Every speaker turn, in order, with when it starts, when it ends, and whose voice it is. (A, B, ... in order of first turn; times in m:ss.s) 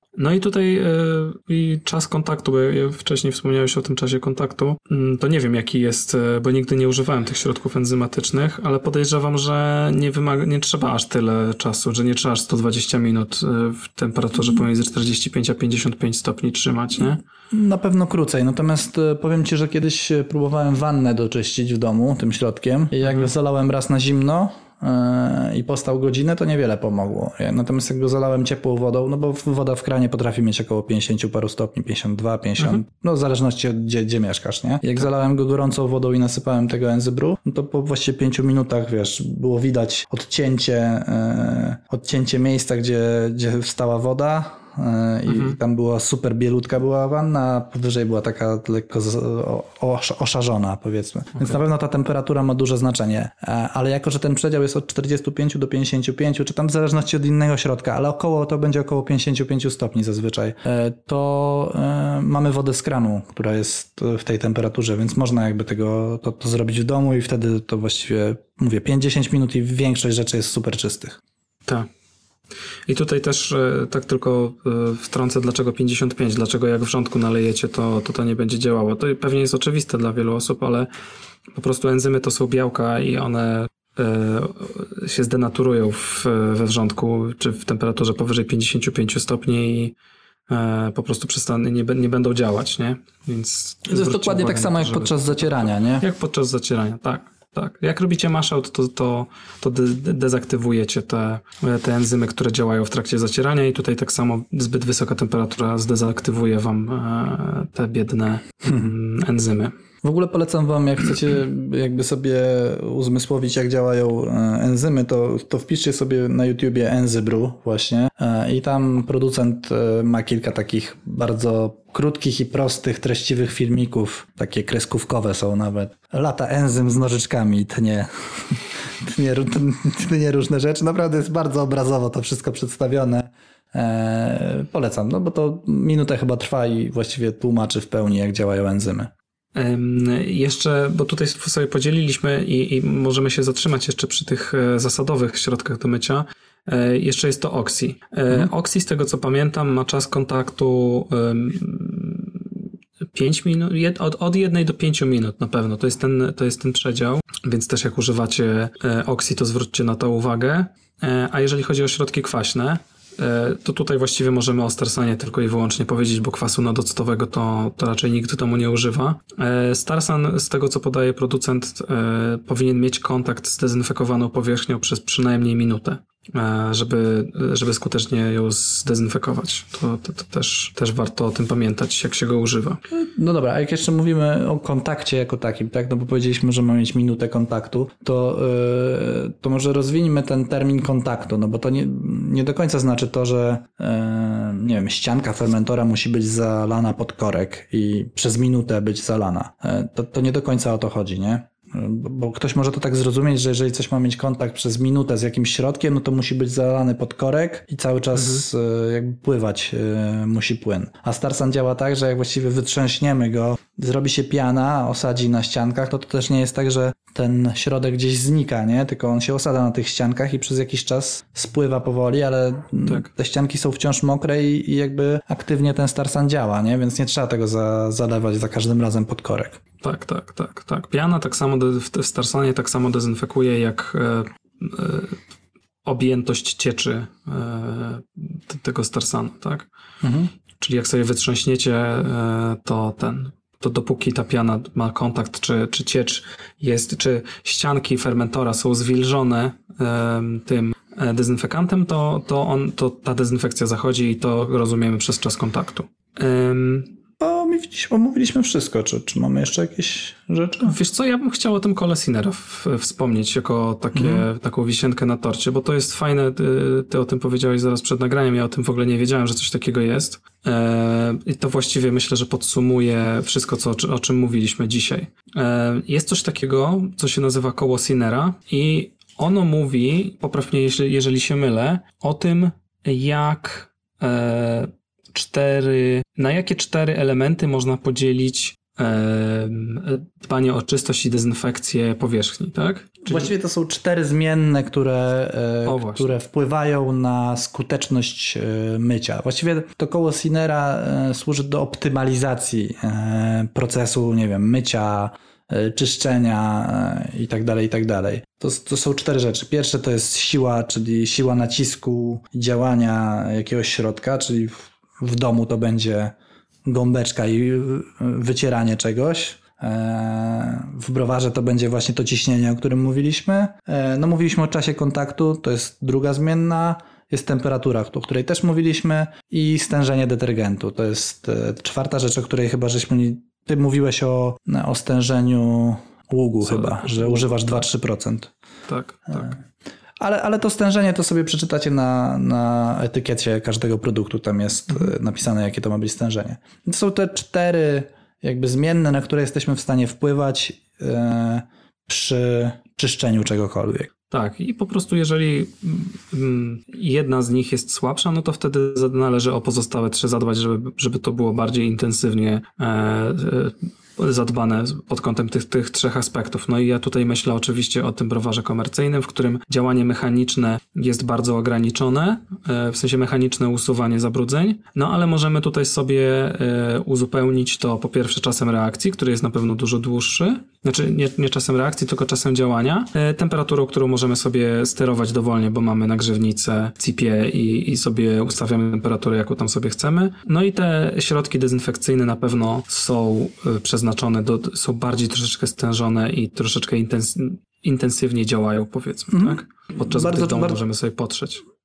0:00.2-0:17.2 A
0:17.5-1:11.2 B
0:23.0-0:23.3 A
0:45.3-0:45.6 A
1:12.9-1:20.9 A
1:21.6-1:30.0 A
1:30.5-1:49.8 A
1:33.9-1:36.0 B
1:50.0-2:19.1 B
2:19.6-2:32.6 A
2:33.1-3:02.8 A
3:02.9-3:49.6 B
3:28.2-3:28.4 A
3:49.8-3:55.2 A
3:55.8-3:59.7 A
4:00.0-4:00.3 B
4:00.6-4:16.9 A
4:17.2-4:20.8 B
4:20.6-4:53.3 A
4:23.9-4:24.3 B
4:53.0-5:16.2 B
4:55.7-4:56.2 A
5:16.7-5:38.3 B
5:36.4-5:37.6 A
5:38.7-5:39.4 A
5:40.0-5:53.9 B
5:54.1-6:41.4 A
6:39.1-6:40.6 B